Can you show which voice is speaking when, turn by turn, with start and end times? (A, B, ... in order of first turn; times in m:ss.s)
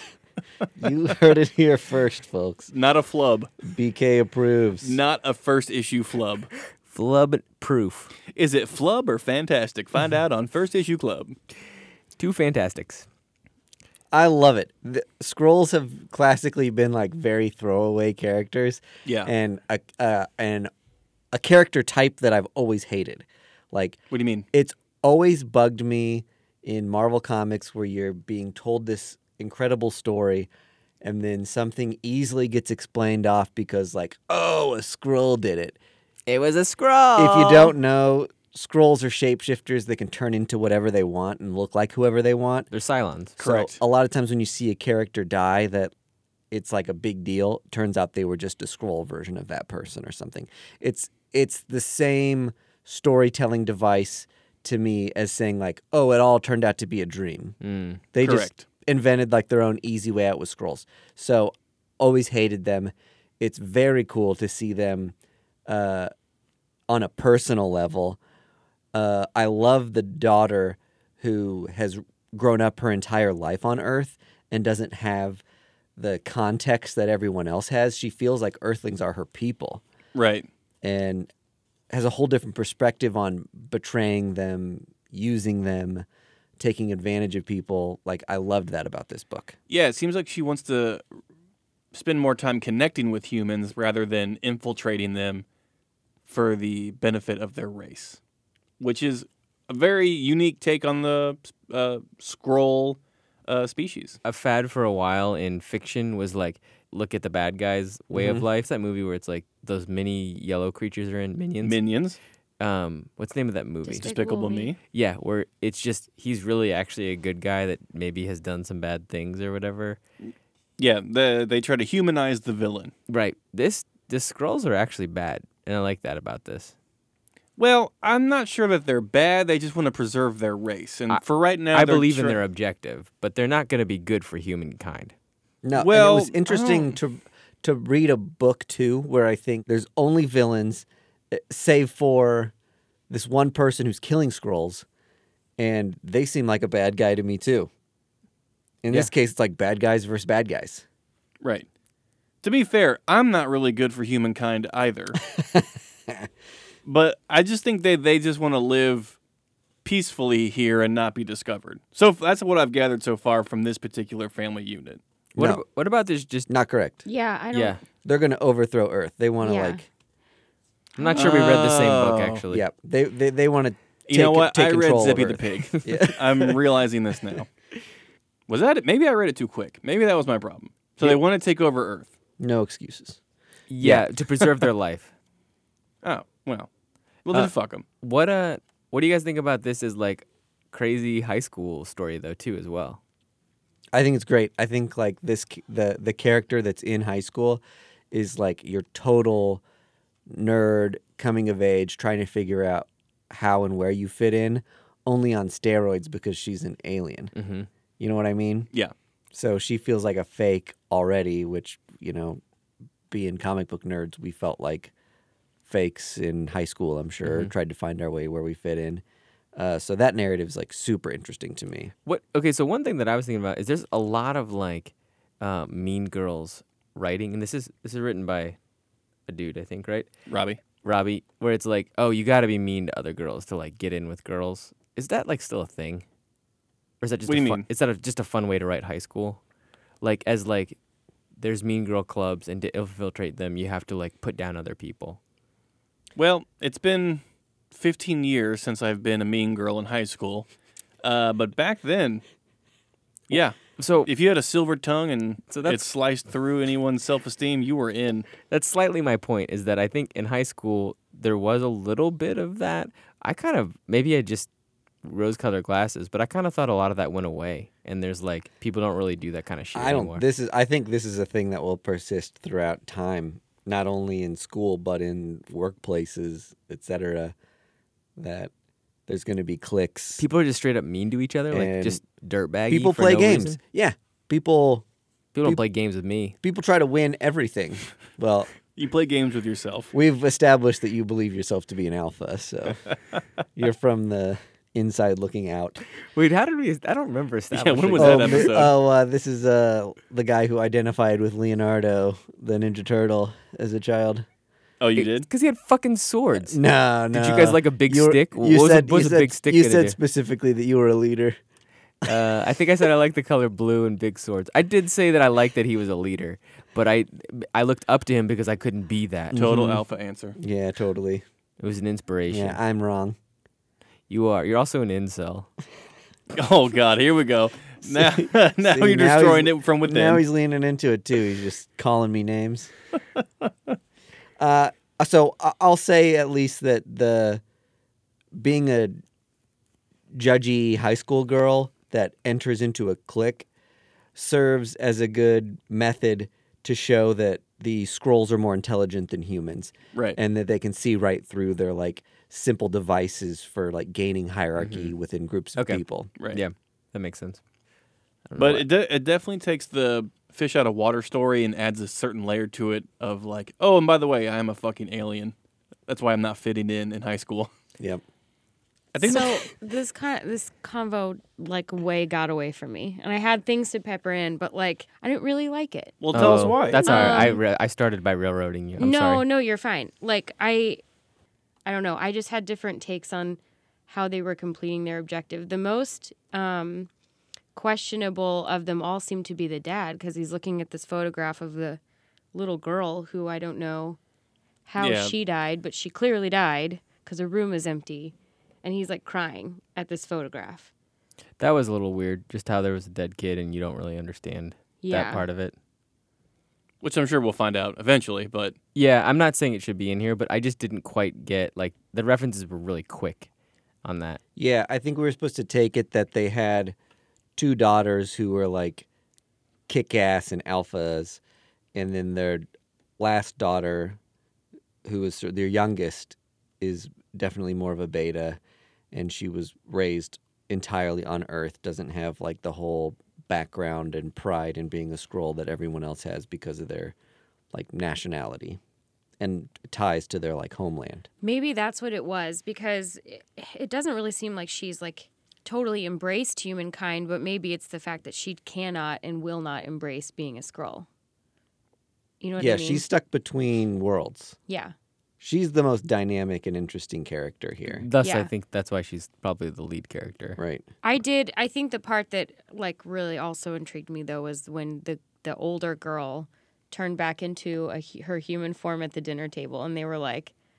0:00.8-0:02.7 A
0:02.7-0:03.5 B
0:03.6-0:05.0 A
0:04.8-0:06.5 B
0:06.9-0:08.1 C
0:08.3-0:11.3 B
0:12.2-0:13.0 C
0:14.1-0:20.7 A
0:19.0-0:19.3 B
0:21.3-0:24.0 A
0:24.1-0:24.4 B
0:24.5-0:30.5 A
0:31.0-0:35.8 A
0:36.3-0:37.7 C
0:37.2-0:42.7 A
0:42.7-0:43.4 C
0:43.4-0:43.8 B
0:43.4-0:45.9 A
0:46.5-0:57.6 A
0:57.6-0:58.0 C
0:58.1-1:05.1 A
0:58.2-0:58.6 B
1:05.7-1:06.1 A
1:06.9-1:08.2 A
1:08.9-1:15.4 A
1:16.0-1:19.8 A
1:20.1-1:20.5 B
1:20.8-1:21.3 A
1:21.9-1:26.0 A
1:26.6-1:29.6 A
1:29.7-1:31.0 B
1:31.9-1:35.4 B
1:36.2-1:38.2 B
1:38.8-1:44.2 B
1:44.2-1:51.8 C
1:48.1-1:48.4 A
1:51.6-1:52.2 B
1:52.6-1:54.1 C
1:53.8-1:54.7 D
1:54.0-1:54.8 B
1:54.9-2:00.0 C
2:00.8-2:02.9 B
2:03.1-2:06.7 C
2:07.6-2:12.4 B
2:11.1-2:15.1 C
2:15.6-2:22.5 A
2:15.7-2:16.9 B
2:23.1-2:24.8 A
2:25.6-2:27.7 A
2:28.8-2:30.8 A
2:31.4-2:31.7 B
2:32.4-2:35.2 B
2:35.3-2:36.3 A
2:36.8-2:39.2 B
2:39.8-2:45.0 B
2:45.3-2:45.6 A
2:45.4-2:46.5 C
2:46.5-2:47.0 A
2:47.0-2:47.8 D
2:47.5-2:47.8 C
2:48.0-2:49.9 A
2:49.4-2:49.8 D
2:51.0-2:51.3 D
2:51.0-2:52.6 C
2:51.1-2:52.4 B
2:52.5-2:56.6 A
2:54.1-2:57.5 B
2:58.5-3:02.1 B
3:02.4-3:03.2 A
3:03.7-3:05.1 C
3:06.0-3:06.7 B
3:07.2-3:07.8 B
3:07.3-3:13.0 C
3:13.9-3:19.6 A
3:20.3-3:27.3 A
3:27.3-3:27.7 C
3:28.0-3:28.7 A
3:29.3-3:32.4 A
3:33.1-3:34.9 A
3:35.6-3:39.0 A
3:37.2-3:37.5 C
3:39.6-3:41.9 A
3:42.0-3:48.6 C
3:49.3-3:50.1 C
3:50.3-3:50.6 B
3:50.8-3:56.0 C
3:57.0-3:59.4 C
3:57.3-3:57.6 B
4:00.0-4:00.8 C
4:01.4-4:05.2 C
4:06.2-4:10.5 B
4:11.0-4:12.2 B
4:13.3-4:18.3 B
4:13.8-4:14.1 C
4:15.5-4:15.8 C
4:18.5-4:24.5 C
4:25.0-4:30.2 C
4:29.7-4:37.3 A
4:38.2-4:38.5 A
4:39.1-4:40.2 A
4:40.2-4:43.6 C
4:41.5-4:42.0 A
4:42.7-4:44.8 A
4:45.3-4:46.4 C
4:46.4-4:48.5 A
4:48.7-4:49.9 B
4:49.9-4:52.8 A
4:53.6-4:55.8 A
4:56.1-4:58.6 C
4:57.5-4:58.7 B
4:58.0-5:04.2 A
5:04.8-5:05.3 B
5:05.0-5:06.6 C
5:06.4-5:11.4 A
5:07.1-5:10.0 C
5:12.0-5:19.4 C
5:19.3-5:19.8 A
5:19.3-5:20.4 B
5:20.4-5:21.2 A
5:21.6-5:22.6 C
5:22.3-5:23.2 A
5:24.1-5:25.5 C
5:26.3-5:30.2 B
5:27.8-5:32.7 A
5:34.4-5:37.4 A
5:38.4-5:39.0 A
5:40.1-5:43.5 A
5:44.1-5:56.1 A
5:54.6-5:54.9 C
5:55.6-5:57.4 C
5:58.3-5:58.6 C
5:58.4-6:05.3 B
6:05.9-6:07.5 B
6:08.9-6:09.5 B
6:09.0-6:17.4 D
6:16.0-6:17.3 B
6:16.1-6:19.2 C
6:18.8-6:20.8 D
6:21.6-6:26.9 D
6:27.5-6:31.8 D
6:32.3-6:34.0 D
6:34.6-6:40.7 D
6:34.8-6:35.2 B
6:41.4-6:45.5 C
6:44.8-6:45.2 D
6:46.8-6:48.6 B
6:48.7-6:53.3 C
6:53.8-6:54.2 C
6:54.4-6:56.7 A
6:57.4-6:58.8 A
6:59.7-7:01.2 A
7:01.7-7:02.4 A
7:03.0-7:04.0 A
7:04.8-7:08.4 A
7:08.9-7:16.9 A
7:17.5-7:18.6 A
7:19.2-7:21.1 A
7:21.2-7:30.9 D
7:32.2-7:32.8 D
7:32.4-7:34.4 A
7:34.5-7:34.7 D
7:35.2-7:37.8 A
7:37.7-7:40.4 C
7:38.0-7:38.3 D
7:40.4-7:40.6 A
7:40.8-7:50.3 D